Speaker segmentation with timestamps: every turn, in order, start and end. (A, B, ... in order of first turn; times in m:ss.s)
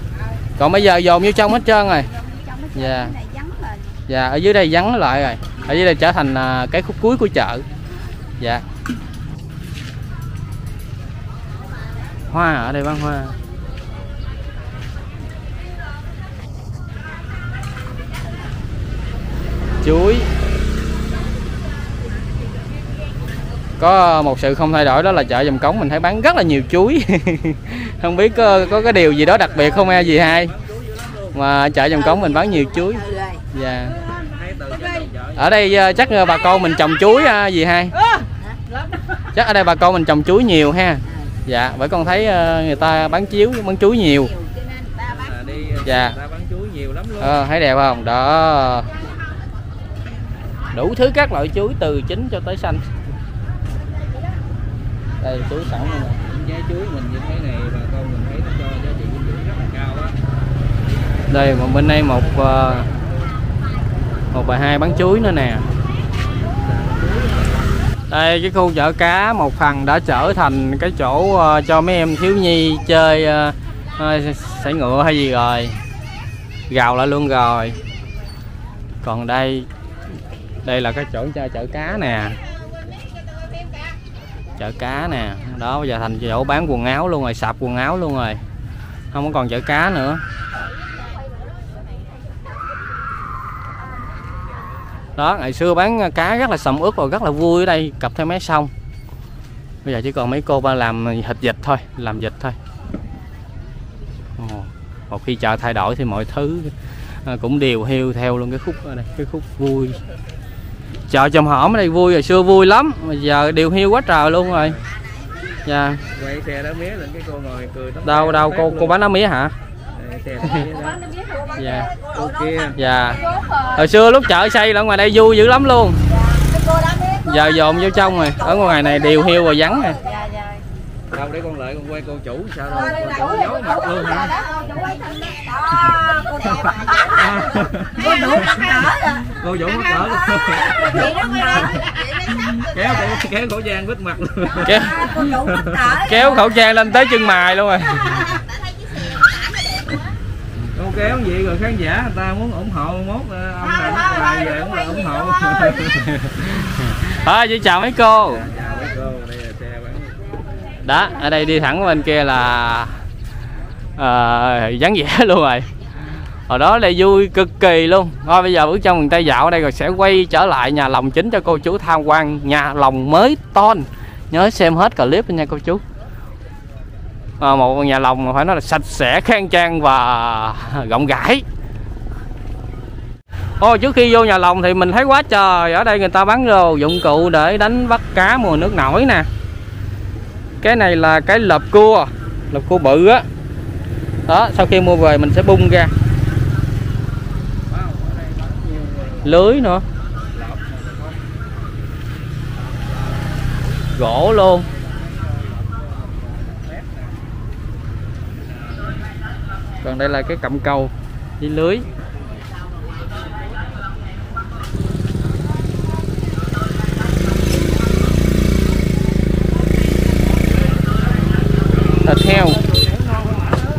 0:00.6-0:02.1 A
0:02.1-0:03.8 B
0:02.7-0:03.1 A
0:04.1-0:07.6 A
0:12.3-0:13.3 A
0:19.8-0:20.3 A
0:23.8-0:30.5 A
0:28.4-0:31.4 C
0:31.3-0:33.0 A
0:32.0-0:35.1 B
0:33.5-0:34.0 A
0:34.3-0:36.0 C
0:35.4-0:37.9 A
0:36.4-0:36.9 B
0:38.0-0:39.2 B
0:39.3-0:44.3 A
0:44.3-0:45.6 B
0:45.1-0:47.4 C
0:45.8-0:46.2 A
0:47.2-0:48.9 A
0:50.7-0:52.8 A
0:55.2-0:56.2 A
0:56.1-1:00.1 C
1:01.3-1:02.9 A
1:04.3-1:05.6 A
1:06.6-1:07.6 C
1:08.1-1:15.8 A
1:16.7-1:17.8 A
1:19.0-1:19.7 A
1:20.6-1:22.4 A
1:24.6-1:28.4 A
1:29.1-1:30.2 A
1:35.2-1:38.7 A
1:39.8-1:42.6 A
1:44.4-1:46.7 A
1:47.2-1:50.0 A
1:51.1-1:54.8 A
1:55.6-1:56.0 A
1:56.1-1:59.0 C
1:58.0-1:59.5 A
2:00.0-2:01.0 C
2:00.5-2:03.9 B
2:01.6-2:01.9 A
2:02.1-2:02.8 C
2:02.8-2:03.2 A
2:03.7-2:06.0 A
2:06.1-2:10.6 B
2:07.3-2:10.0 A
2:11.1-2:14.3 C
2:12.7-2:19.3 B
2:16.9-2:21.8 C
2:20.0-2:23.2 B
2:22.5-2:25.8 C
2:24.6-2:26.7 B
2:24.6-2:25.1 A
2:26.0-2:28.3 A
2:27.9-2:30.0 B
2:30.7-2:36.1 C
2:33.6-2:36.0 B
2:36.8-2:38.4 A
2:38.3-2:40.2 C
2:40.8-2:42.9 A
2:44.0-2:45.7 A
2:46.5-2:55.8 A
2:57.4-3:01.4 A
3:03.6-3:09.3 A
3:10.6-3:13.2 A
3:14.3-3:15.9 A
3:17.7-3:19.4 C
3:19.2-3:19.8 A
3:20.3-3:21.2 C
3:24.0-3:24.7 A
3:24.7-3:27.1 C
3:29.8-3:31.8 A
3:42.0-3:42.6 A